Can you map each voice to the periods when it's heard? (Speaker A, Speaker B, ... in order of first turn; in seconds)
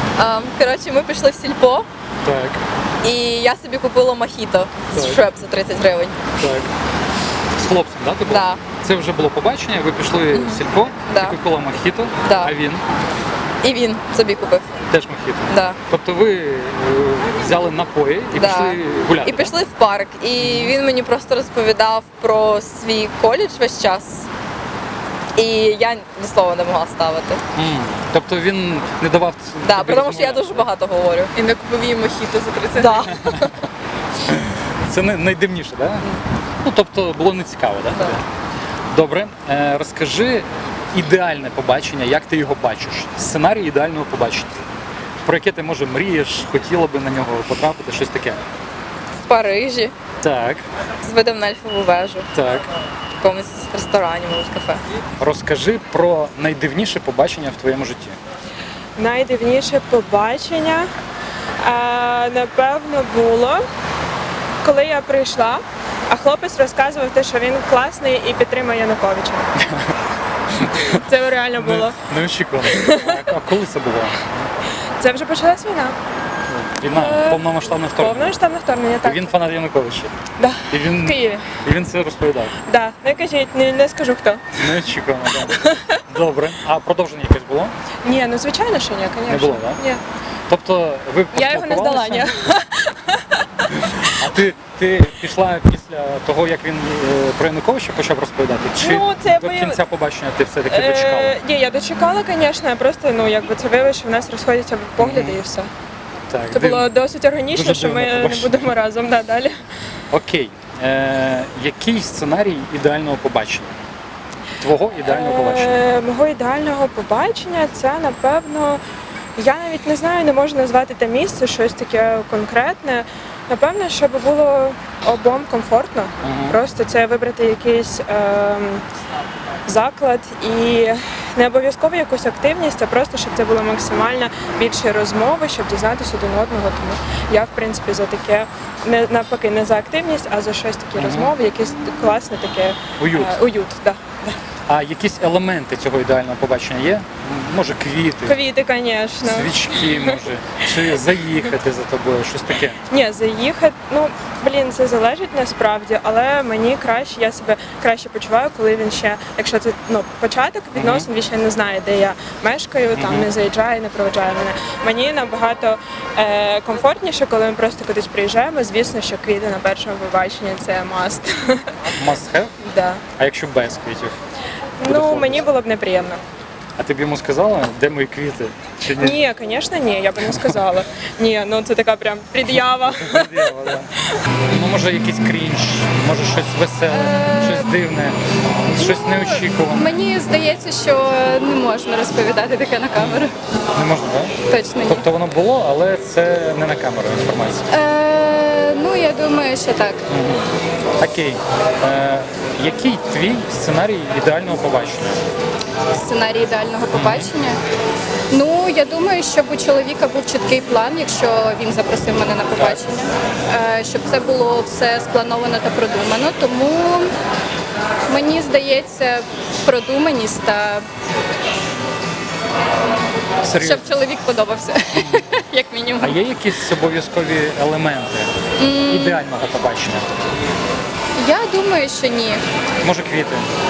Speaker A: 0.2-1.9, 3.0-6.2, 10.3-10.6, 11.1-11.4, 12.3-12.5, 13.6-14.8, 18.4-18.7, 19.2-24.3, 25.4-27.4, 29.7-31.3, 32.8-33.5, 49.2-49.8, 51.1-52.3, 53.2-54.8
Speaker B: 2.2-2.6, 4.9-5.2, 6.4-6.7, 7.6-12.8, 14.9-19.6, 20.4-20.8, 27.6-30.7, 33.2-33.4, 34.3-36.1, 36.6-38.2, 38.9-44.5, 45.2-48.4, 50.2-50.6, 52.3-52.7, 55.2-58.2, 70.6-71.0, 71.5-74.5, 76.5-78.3, 79.0-80.1, 80.7-82.5, 84.6-87.7, 89.3-89.8, 90.5-92.3, 94.1-101.4, 105.0-105.4, 106.3-106.9, 107.5-108.7, 110.1-113.8, 114.6-115.8, 126.2-126.6, 140.9-141.3, 143.0-143.4, 144.7-148.4, 149.2-152.8, 160.8-161.1, 162.9-163.3, 171.9-172.5, 173.2-174.1, 174.8-175.5, 176.8-179.2, 183.0-183.9, 184.5-188.2, 188.7-190.0, 192.9-194.3, 194.8-197.7, 200.1-200.5, 201.0-205.2, 206.9-207.3, 212.6-212.8, 223.4-224.0, 224.9-225.2, 226.0-228.3, 228.9-230.3, 232.8-233.5
Speaker C: 59.0-60.9, 61.6-63.6, 64.6-69.5, 71.0-72.0, 72.6-73.2, 75.0-76.0, 76.9-79.4, 80.4-81.5, 82.7-84.5, 85.5-85.8, 88.0-90.0, 91.3-93.4, 98.7-99.8, 100.7-105.7, 106.5-109.6, 115.0-118.8, 119.4-128.8, 129.7-144.4, 148.2-150.2, 152.9-171.7, 172.6-173.0, 174.8-176.2, 179.0-183.7
Speaker D: 186.9-187.8, 188.8-193.3, 194.5-195.1, 197.7-200.0, 205.9-207.6, 208.3-217.1, 218.1-220.8, 223.6-226.2, 228.6-229.2, 231.2-232.4